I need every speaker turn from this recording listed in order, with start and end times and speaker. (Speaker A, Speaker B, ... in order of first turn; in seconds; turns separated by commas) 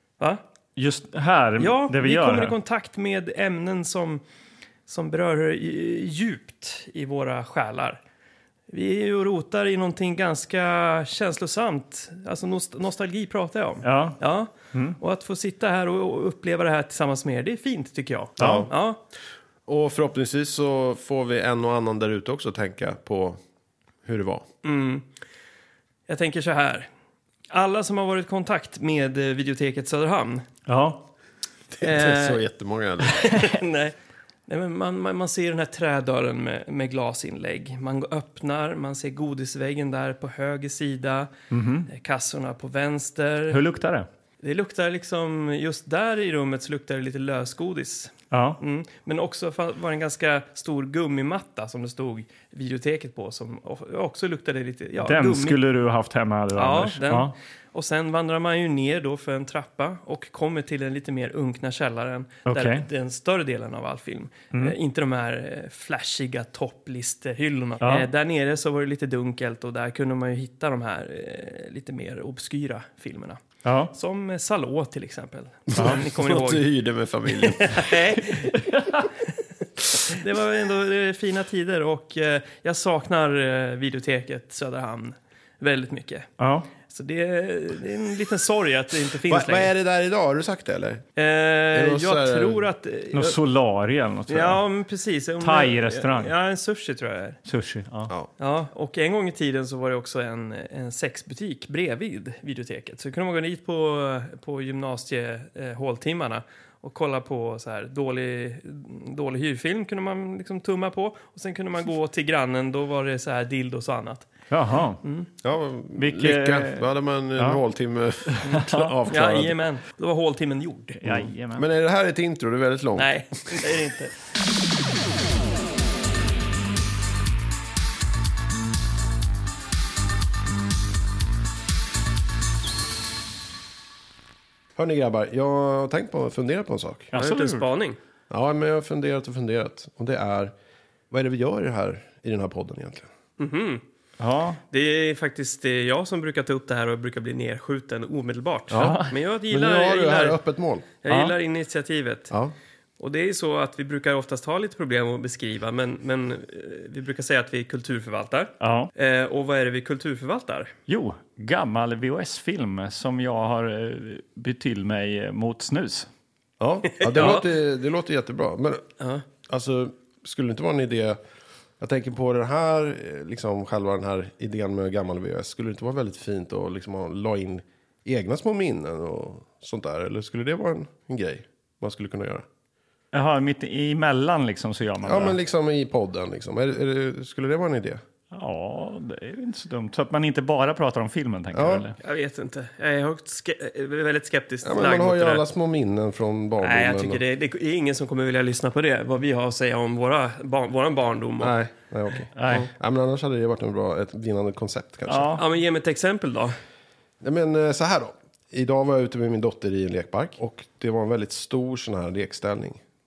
Speaker A: 0.8-2.5, Speaker B: 1.6-4.2, Speaker B: 4.9-8.0, Speaker B: 8.7-19.0, Speaker A: 13.8-14.2, Speaker A: 14.7-15.0, Speaker C: 18.4-18.7, Speaker A: 18.4-18.7, Speaker C: 19.7-23.4, Speaker C: 24.1-24.5, Speaker B: 24.6-25.1, Speaker B: 26.1-26.9, Speaker B: 27.5-30.5, Speaker A: 30.7-31.1, Speaker C: 31.7-33.3, Speaker B: 31.8-32.4, Speaker B: 33.0-34.0, Speaker B: 34.5-41.3, Speaker A: 41.5-41.9, Speaker B: 41.9-43.6, Speaker A: 43.5-44.1, Speaker B: 44.4-55.6, Speaker A: 48.3-48.6, Speaker A: 55.0-57.3, Speaker B: 56.5-76.7, Speaker A: 62.5-62.9, Speaker A: 67.8-68.1, Speaker A: 73.7-73.9, Speaker C: 75.7-78.2, Speaker B: 77.3-78.6, Speaker A: 78.7-79.0, Speaker B: 80.0-86.3, Speaker A: 86.4-86.7, Speaker B: 86.9-89.7, Speaker C: 89.3-91.1, Speaker B: 91.2-93.4, Speaker C: 91.7-92.7, Speaker A: 93.1-94.6, Speaker B: 94.3-97.4, Speaker A: 95.4-96.3, Speaker A: 97.5-98.1, Speaker B: 98.4-114.3, Speaker A: 114.5-115.0, Speaker B: 115.0-115.3, Speaker C: 115.4-119.6, Speaker A: 116.0-117.6, Speaker A: 118.3-119.0, Speaker B: 119.1-121.2, Speaker A: 121.0-121.7, Speaker C: 121.1-123.7, Speaker B: 123.0-124.1, Speaker C: 134.8-137.1, Speaker A: 137.1-137.7, Speaker B: 137.2-138.0, Speaker C: 138.3-140.5, Speaker C: 141.1-143.1, Speaker B: 143.4-143.8, Speaker A: 144.2-144.6, Speaker B: 144.7-150.4, Speaker C: 148.7-150.9, Speaker A: 148.8-149.2, Speaker B: 151.0-152.3, Speaker A: 151.1-151.3, Speaker B: 153.0-160.7, Speaker A: 158.6-158.9, Speaker A: 160.9-166.1, Speaker C: 166.6-168.9, Speaker B: 167.0-167.5, Speaker B: 169.0-169.2, Speaker C: 169.4-171.2, Speaker C: 171.8-182.5, Speaker A: 183.1-185.4, Speaker C: 185.0-188.0, Speaker A: 188.3-192.0, Speaker C: 191.5-191.9, Speaker B: 192.0-195.4, Speaker C: 194.6-197.2, Speaker B: 196.6-201.6, Speaker C: 201.4-205.4, Speaker A: 202.4-202.7, Speaker A: 205.1-205.4, Speaker B: 205.4-206.6, Speaker C: 207.2-212.8